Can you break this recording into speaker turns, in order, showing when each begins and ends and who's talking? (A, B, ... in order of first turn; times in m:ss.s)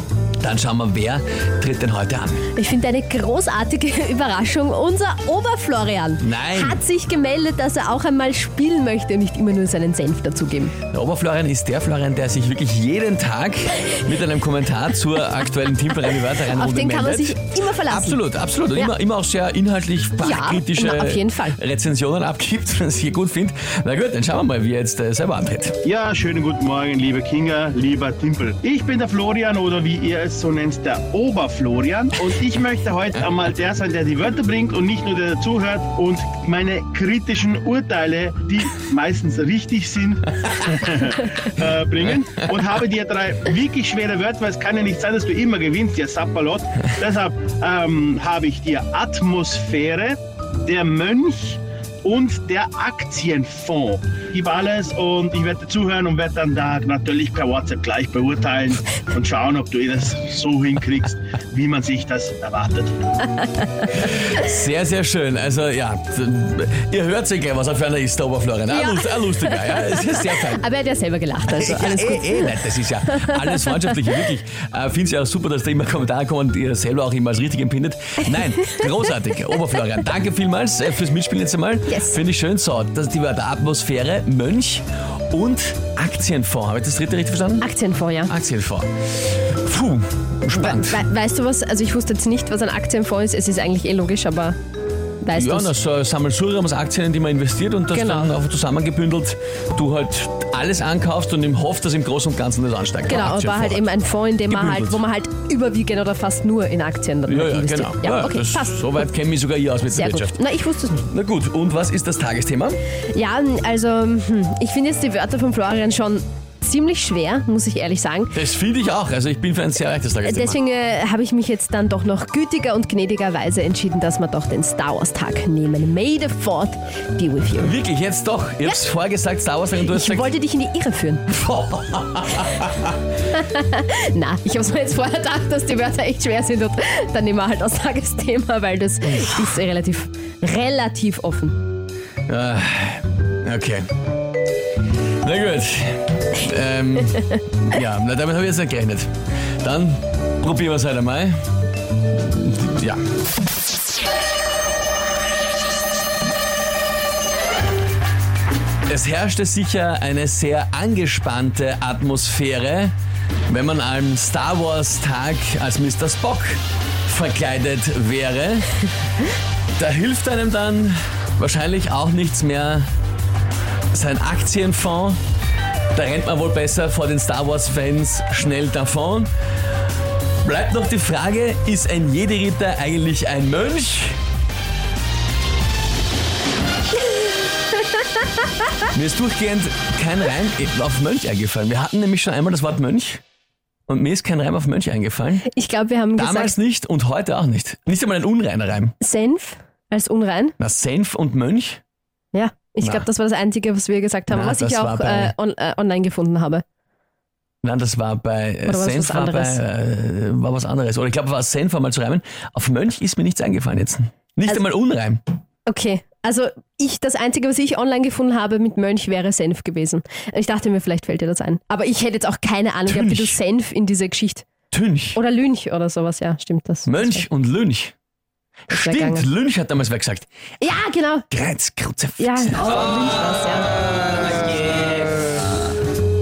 0:00.4-0:02.4 A
0:02.5-0:10.7 B
0:06.2-0:06.8 A
0:10.9-0:25.8 A
0:16.1-0:18.2 B
0:20.2-0:21.6 B
0:25.8-1:03.0 C
1:03.9-1:10.6 A
1:08.7-1:13.9 B
1:11.4-1:27.7 A
1:21.9-1:22.2 B
1:27.6-1:28.3 B
1:28.2-1:31.0 A
1:30.5-1:34.6 B
1:35.2-1:35.7 B
1:35.3-1:43.9 A
1:37.9-1:38.3 B
1:43.1-1:48.9 B
1:44.5-1:45.0 A
1:47.3-1:50.4 A
1:49.9-1:51.1 B
1:51.0-1:52.8 A
1:53.1-1:58.4 B
1:58.3-2:00.6 A
2:00.2-2:07.7 B
2:07.6-2:10.4 A
2:09.8-2:11.2 B
2:11.3-2:13.0 A
2:13.3-2:21.6 B
2:22.3-2:23.9 A
2:25.2-2:31.4 A
2:32.2-2:33.0 A
2:38.9-2:42.9 A
2:43.5-2:48.8 A
2:49.8-2:52.9 A
2:53.9-2:55.2 A
2:55.9-2:59.3 A
3:00.4-3:04.2 A
3:08.9-3:13.2 A
3:13.9-3:15.5 A
3:15.5-3:16.5 B
3:16.2-3:18.9 A
3:19.0-3:20.5 B
3:20.6-3:21.8 A
3:22.3-3:26.6 B
3:22.8-3:23.1 A
3:24.3-3:25.3 A
3:27.6-3:35.2 A
3:28.6-3:29.6 B
3:35.6-3:44.5 B
3:42.9-3:43.4 A
3:44.7-3:45.2 A
3:45.1-3:47.2 B
3:46.9-3:47.9 A
3:48.7-3:50.3 A
3:48.7-3:49.3 B
3:50.6-3:51.3 B
3:51.3-3:52.8 A
3:52.2-3:53.7 B